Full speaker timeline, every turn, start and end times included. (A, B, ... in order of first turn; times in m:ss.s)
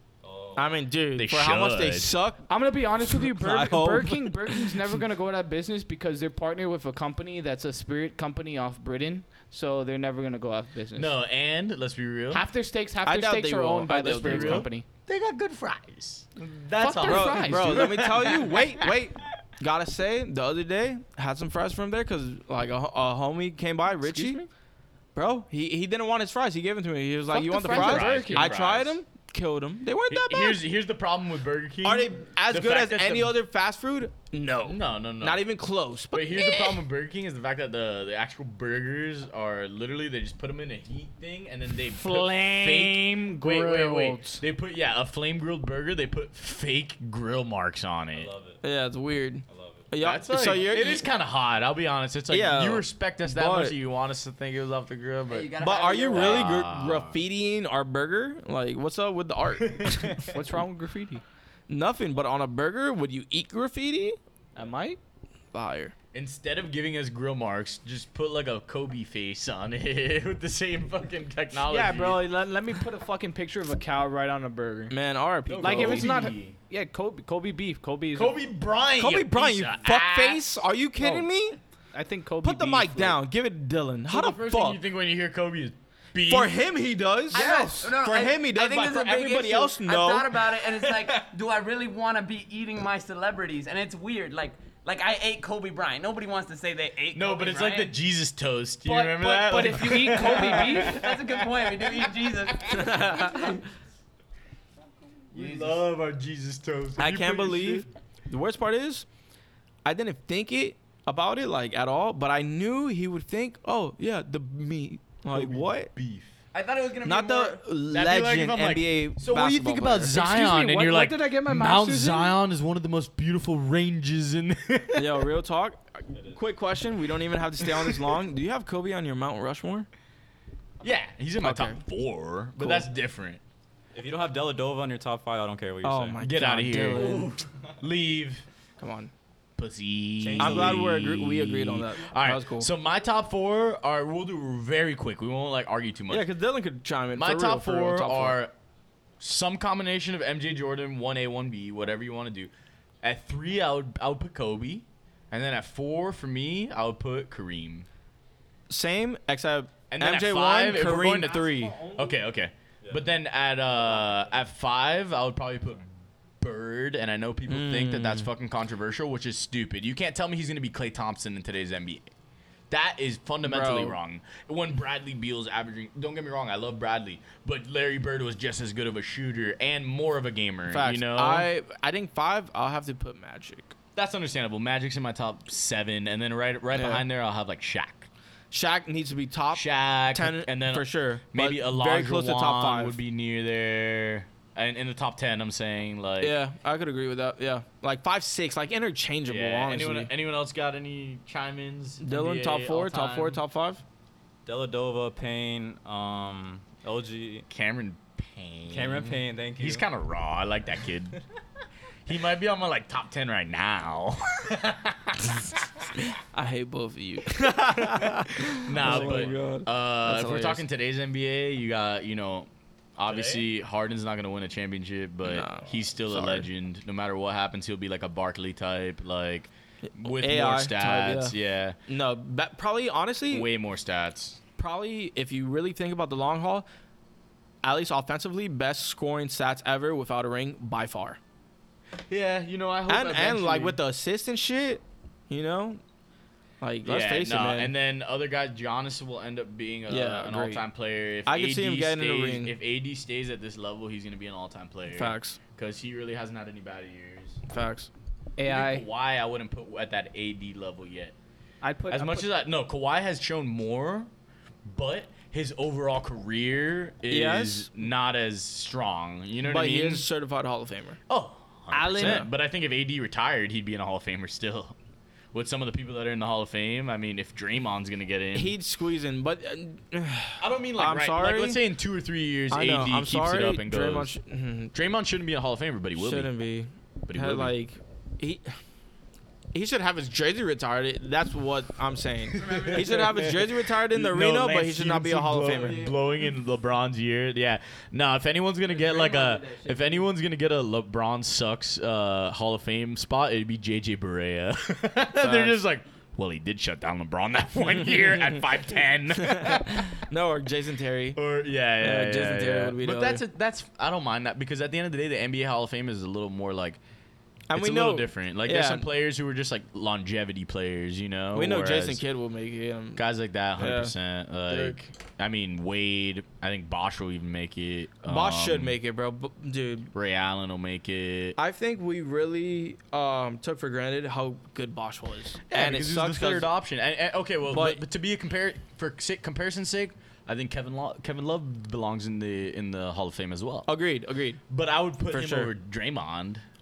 0:00.2-0:00.7 A
0:00.6-0:02.4 B
0:01.2-0:02.1 C
0:02.5-0:11.1 D
0:03.1-0:04.8 B
0:11.0-0:12.4 C
0:12.3-0:14.9 D
0:13.0-0:14.7 B
0:14.2-0:18.9 C
0:16.8-0:18.0 D
0:17.0-0:24.4 B
0:23.9-0:24.5 D
0:25.2-0:30.6 B
0:27.3-0:28.6 D
0:27.4-0:29.0 C
0:30.1-0:33.4 C
0:31.8-0:36.7 B
0:34.6-0:35.4 C
0:36.1-0:48.3 C
0:41.9-0:44.4 D
0:48.1-0:48.6 A
0:48.6-0:51.1 B
0:49.5-0:49.9 A
0:50.0-0:55.5 C
0:52.3-0:53.8 B
0:55.3-0:56.6 E
0:55.6-1:00.3 B
0:56.1-0:57.2 C
0:59.7-1:00.1 C
1:00.2-1:01.2 D
1:01.7-1:04.2 B
1:04.6-1:05.0 D
1:05.5-1:05.9 B
1:06.1-1:12.2 C
1:11.7-1:15.0 D
1:14.9-1:16.1 B
1:15.5-1:16.6 C
1:15.6-1:18.4 D
1:18.1-1:20.6 C
1:19.0-1:21.6 B
1:21.0-1:21.3 D
1:21.9-1:23.2 D
1:22.4-1:24.8 B
1:24.1-1:26.6 C
1:26.2-1:31.2 B
1:27.3-1:37.9 E
1:37.1-1:41.3 C
1:38.8-1:41.0 D
1:40.2-1:43.6 E
1:42.8-1:43.5 B
1:45.3-1:45.8 E
1:45.3-1:47.9 C
1:47.0-1:49.1 B
1:49.8-1:55.9 B
1:55.3-1:56.3 C
1:56.5-1:57.6 E
1:57.0-2:00.2 B
1:57.9-2:05.3 C
2:00.1-2:02.4 D
2:05.0-2:09.9 B
2:06.1-2:06.4 A
2:07.6-2:08.1 C
2:10.8-2:13.4 C
2:11.4-2:11.8 B
2:12.6-2:12.9 B
2:13.9-2:16.2 A
2:15.8-2:17.4 B
2:16.2-2:18.4 C
2:17.0-2:17.4 E
2:18.8-2:19.1 B
2:19.6-2:26.3 C
2:20.2-2:20.9 A
2:20.4-2:22.7 B
2:26.1-2:28.4 B
2:27.2-2:28.5 C
2:29.2-2:32.5 C
2:33.0-2:37.9 C
2:38.7-2:41.8 B
2:39.9-2:45.9 C
2:41.5-2:42.0 D
2:42.8-2:43.1 A
2:43.7-2:44.3 A
2:46.4-2:52.1 C
2:47.5-2:48.3 B
2:52.7-3:01.5 C
2:53.4-2:54.0 B
3:00.7-3:03.8 B
3:04.0-3:08.1 C
3:06.7-3:07.0 B
3:08.5-3:13.0 B
3:09.5-3:16.4 C
3:16.2-3:20.1 B
3:19.2-3:23.4 C
3:22.0-3:23.8 B
3:24.5-3:27.5 A
3:27.5-3:31.2 C
3:28.7-3:29.9 A
3:32.1-3:35.6 C
3:36.1-3:40.6 B
3:37.8-3:51.8 C
3:38.8-3:39.3 A
3:43.1-3:43.4 A
3:45.2-3:46.5 B
3:49.8-3:51.3 B
3:51.9-3:53.5 B
3:53.3-3:54.4 C
3:54.6-3:56.7 B
3:57.6-4:01.2 B
4:02.1-4:03.8 C
4:02.9-4:05.8 B
4:06.6-4:07.7 B
4:06.8-4:17.4 C
4:09.9-4:10.6 B
4:11.3-4:12.5 B
4:14.9-4:15.4 B
4:17.5-4:17.9 B
4:18.4-4:18.9 D
4:18.5-4:21.2 C
4:21.6-4:22.3 D
4:21.9-4:24.1 C
4:24.7-4:30.1 C
4:27.1-4:27.7 B
4:29.4-4:31.0 B
4:31.1-4:34.8 C
4:31.7-4:32.3 D
4:32.0-4:32.3 B
4:35.3-4:38.6 C
4:38.3-4:41.6 B
4:40.4-4:44.1 C
4:42.5-4:44.7 B
4:44.7-4:46.3 C
4:46.0-4:48.6 B
4:47.1-4:47.5 C
4:49.5-4:55.9 B
4:52.4-5:09.9 C
4:52.5-4:53.1 E
4:58.8-4:59.7 E
5:05.2-5:05.6 B
5:09.2-5:11.2 B
5:11.2-5:16.8 C
5:11.8-5:13.2 B
5:17.5-5:18.9 B
5:17.5-5:22.0 C
5:21.3-5:23.0 B
5:23.0-5:28.8 C
5:23.6-5:23.9 B
5:24.5-5:24.8 B
5:28.0-5:29.9 B
5:29.9-5:31.4 C
5:31.4-5:36.5 B
5:35.5-5:43.7 C
5:37.5-5:37.8 B
5:43.7-5:44.4 B
5:44.5-5:46.4 C
5:45.1-5:45.5 B